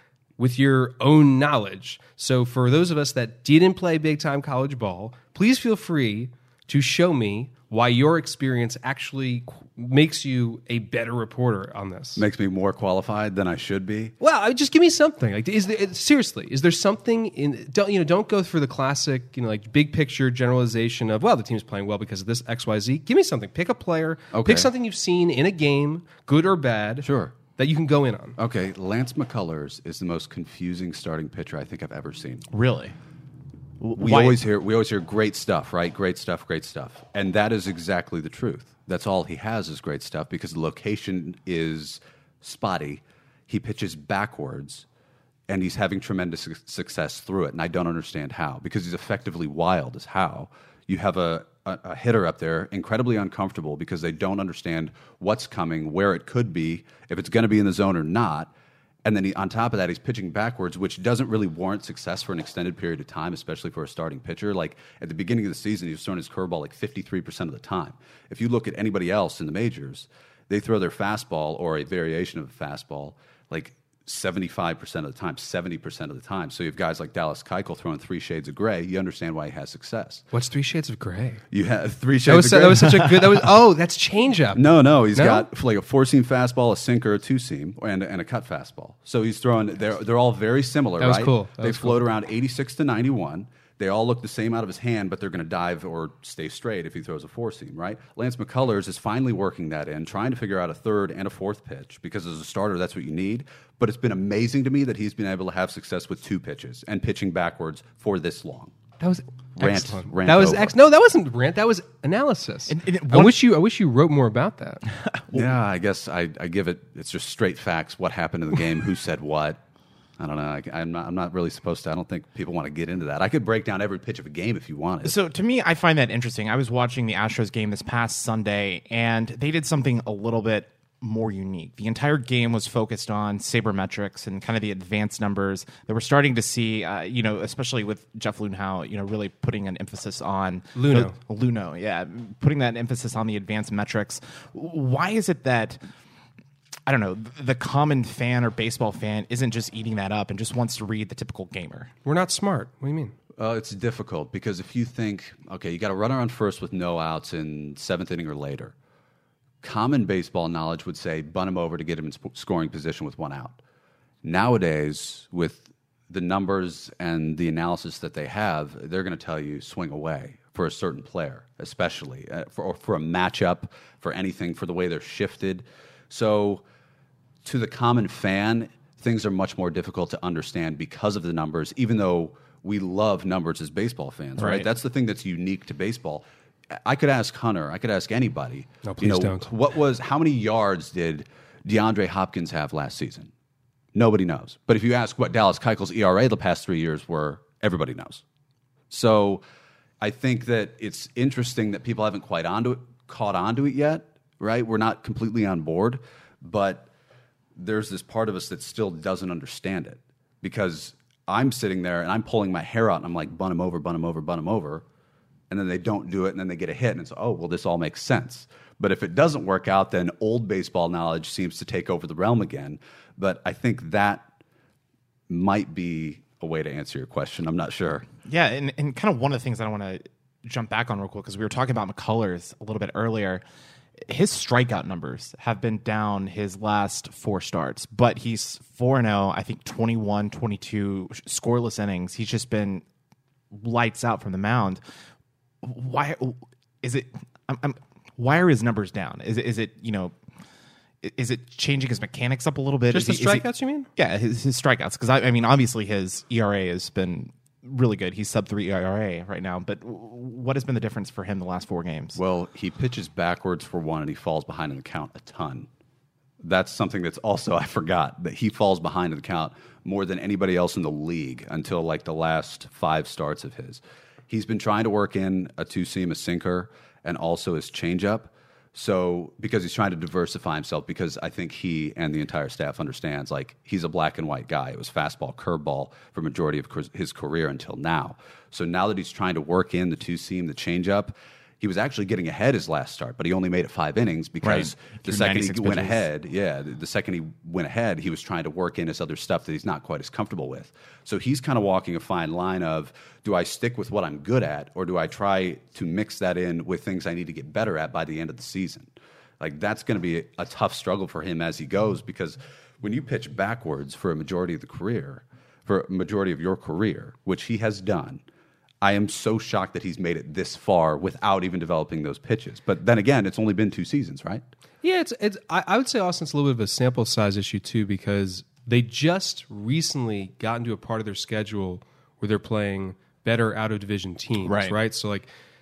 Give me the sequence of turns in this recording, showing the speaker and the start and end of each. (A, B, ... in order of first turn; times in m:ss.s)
0:00.4-0:12.2 A
0:12.2-0:14.1 B
0:14.2-0:28.4 A
0:24.3-0:24.7 B
0:27.0-0:27.3 B
0:28.4-0:32.5 B
0:32.5-0:33.0 C
0:33.8-0:34.4 C
0:34.0-0:44.8 B
0:45.5-0:58.5 B
0:59.0-1:20.2 B
1:20.3-1:21.4 A
1:21.5-1:23.4 B
1:22.2-1:25.4 A
1:24.5-1:48.8 B
1:31.0-1:32.0 A
1:49.0-1:54.8 A
1:49.6-1:50.8 B
1:52.7-1:53.4 C
1:55.0-1:55.5 C
1:55.3-1:59.6 B
2:00.2-2:05.2 B
2:05.0-2:25.8 C
2:20.7-2:21.2 A
2:26.8-2:31.9 C
2:32.0-2:33.1 A
2:33.4-2:38.7 B
2:39.6-2:43.6 B
2:44.2-2:56.6 B
2:57.4-3:13.3 B
3:04.4-3:04.7 C
3:08.8-3:09.5 A
3:13.9-3:18.2 B
3:18.9-3:19.4 B
3:20.0-3:26.9 B
3:27.6-3:34.8 B
3:35.5-3:44.3 B
3:45.3-3:48.0 B
3:48.2-3:53.4 C
3:54.0-4:02.8 C
4:03.5-4:04.8 C
4:05.6-4:10.2 C
4:11.0-4:22.2 C
4:12.9-4:13.9 A
4:22.2-4:25.7 B
4:26.4-5:18.2 B
4:54.4-4:56.0 C
5:18.8-5:24.4 B
5:24.8-5:35.3 A
5:34.4-5:34.8 C